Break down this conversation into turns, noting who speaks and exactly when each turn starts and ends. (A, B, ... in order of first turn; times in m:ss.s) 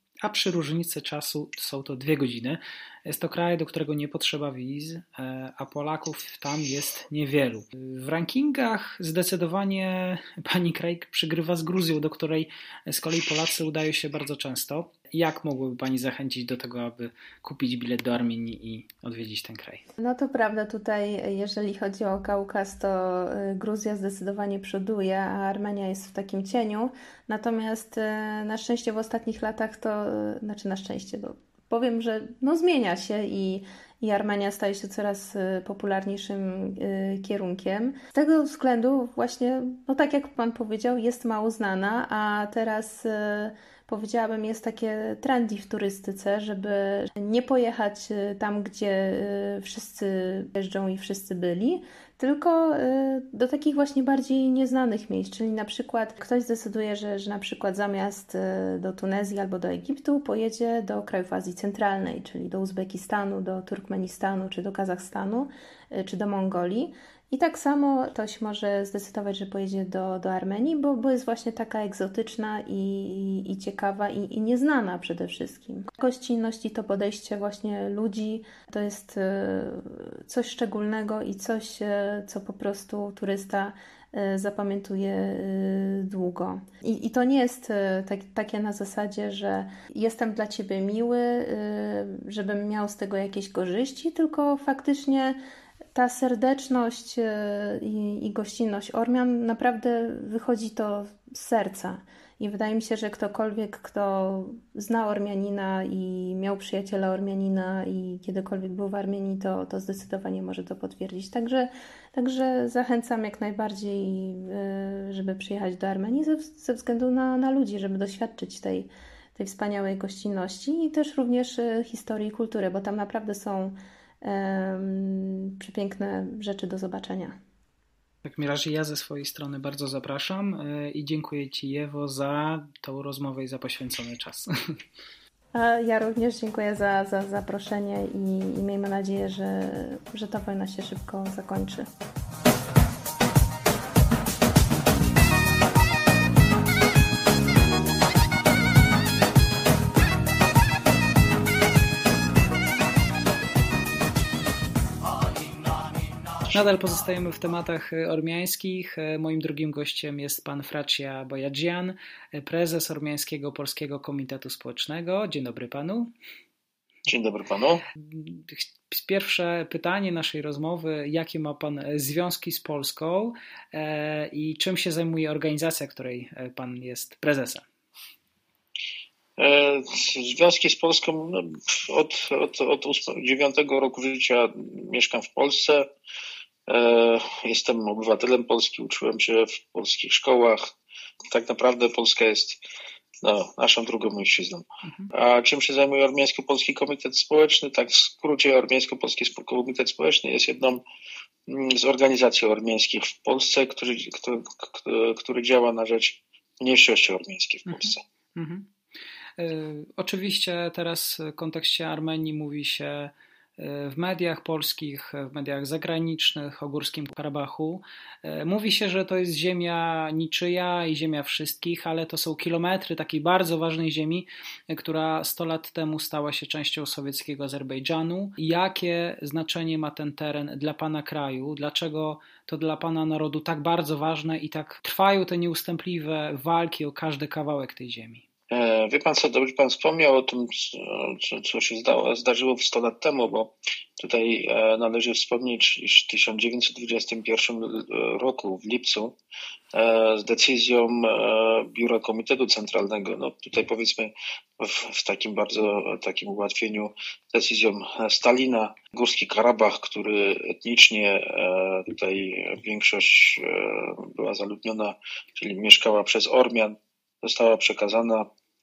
0:00.2-0:19.8 A
0:20.0-1:35.4 B
1:35.9-2:07.4 B
2:08.2-2:14.8 A
2:15.5-2:21.9 B
2:36.5-2:46.1 A
2:47.1-2:47.8 C
2:48.0-2:57.7 A
2:59.4-3:05.9 C
3:06.7-3:10.7 C
3:11.3-3:12.6 C
3:13.2-3:20.8 C
3:21.5-3:28.0 C
3:27.7-3:28.7 A
3:29.4-3:58.2 A
3:58.5-4:09.2 C
4:09.7-4:28.3 C